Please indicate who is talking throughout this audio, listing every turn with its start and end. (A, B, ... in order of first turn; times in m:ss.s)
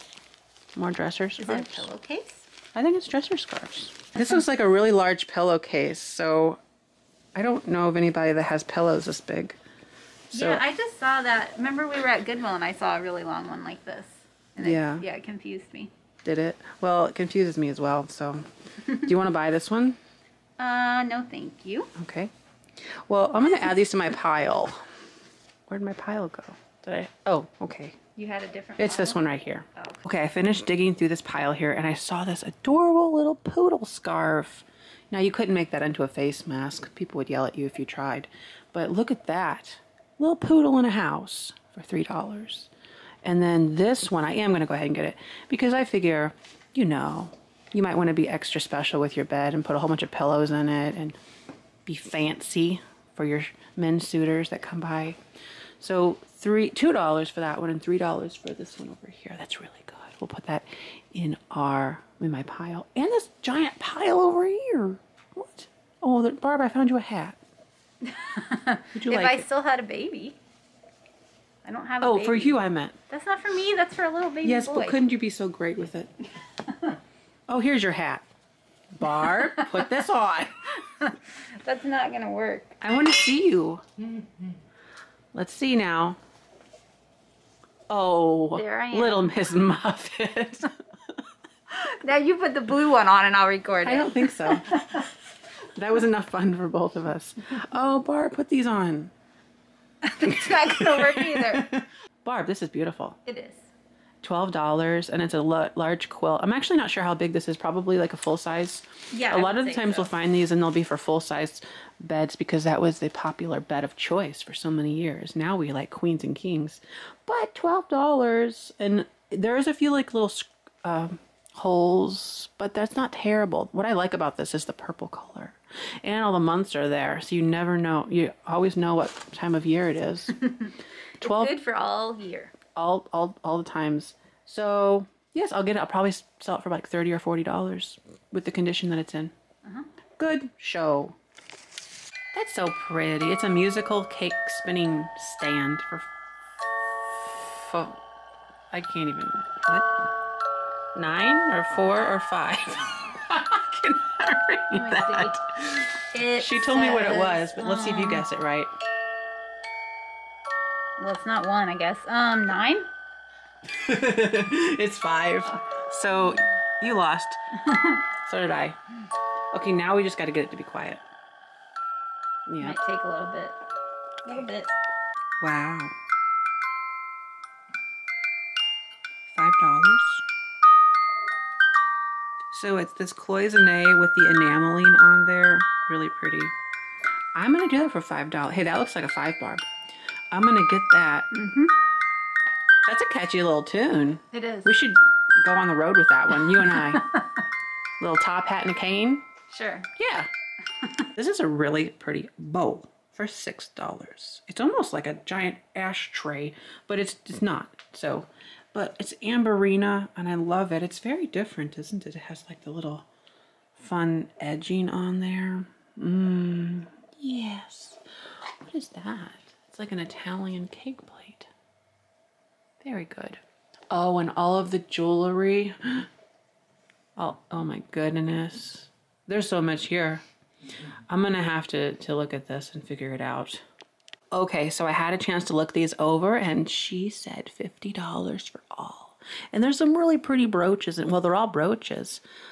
0:00.8-0:01.9 A
0:01.4-0:02.5 B
0:02.7-0:06.6 A
0:07.3-0:09.6 A
0:10.3-0:10.6 A
0:10.3-0:15.9 B
0:14.6-0:15.1 A
0:16.2-0:18.5 A
0:19.0-0:20.0 A
0:20.6-0:21.9 B
0:22.0-0:24.8 A
0:25.7-0:28.0 A
0:28.1-0:29.2 B
0:28.8-0:42.7 A
0:29.8-0:30.1 B
0:43.2-0:51.2 A
0:51.8-0:55.2 A
0:55.8-1:07.4 A
1:08.0-1:10.4 B
1:08.9-1:09.4 A
1:11.6-1:15.0 B
1:12.0-1:13.0 A
1:14.4-1:16.1 A
1:16.6-1:17.0 B
1:17.5-1:18.2 A
1:19.0-1:20.6 A
1:19.1-1:19.8 B
1:20.8-1:22.8 B
1:22.8-1:23.8 A
1:25.3-1:26.2 A
1:27.9-1:30.8 A
1:28.6-1:29.3 B
1:31.7-1:35.1 B
1:33.8-1:34.8 A
1:35.7-1:39.1 A
1:40.0-1:41.7 B
1:40.2-1:43.2 A
1:43.2-1:43.7 B
1:44.2-2:10.3 A
1:49.1-1:50.1 B
2:10.4-2:12.5 B
2:11.2-2:11.6 A
2:12.8-2:19.3 A
2:20.2-2:21.2 A
2:22.3-2:26.1 A
2:27.2-2:28.0 A
2:28.7-2:29.9 A
2:30.9-2:38.7 A
2:34.7-2:35.4 B
2:36.1-2:38.2 B
2:41.0-2:42.9 B
2:43.7-2:47.4 A
2:47.7-2:48.0 B
2:48.2-2:48.8 A
2:49.5-2:51.0 A
2:52.5-2:52.8 A
2:52.6-2:53.6 B
2:54.2-2:54.7 B
2:55.4-2:55.9 A
2:59.3-3:00.2 A
3:02.5-3:06.6 A
3:07.3-3:09.7 A
3:10.3-3:11.3 A
3:11.3-3:11.7 B
3:12.8-3:17.0 A
3:14.3-3:14.7 B
3:16.4-3:17.4 B
3:18.0-3:19.2 A
3:19.5-3:19.9 B
3:20.0-3:20.3 A
3:21.2-3:33.1 A
3:33.8-3:38.0 A
3:38.6-3:41.5 A
3:42.8-3:46.1 A
3:47.2-3:50.2 A
3:51.1-3:53.6 A
3:54.3-4:02.2 A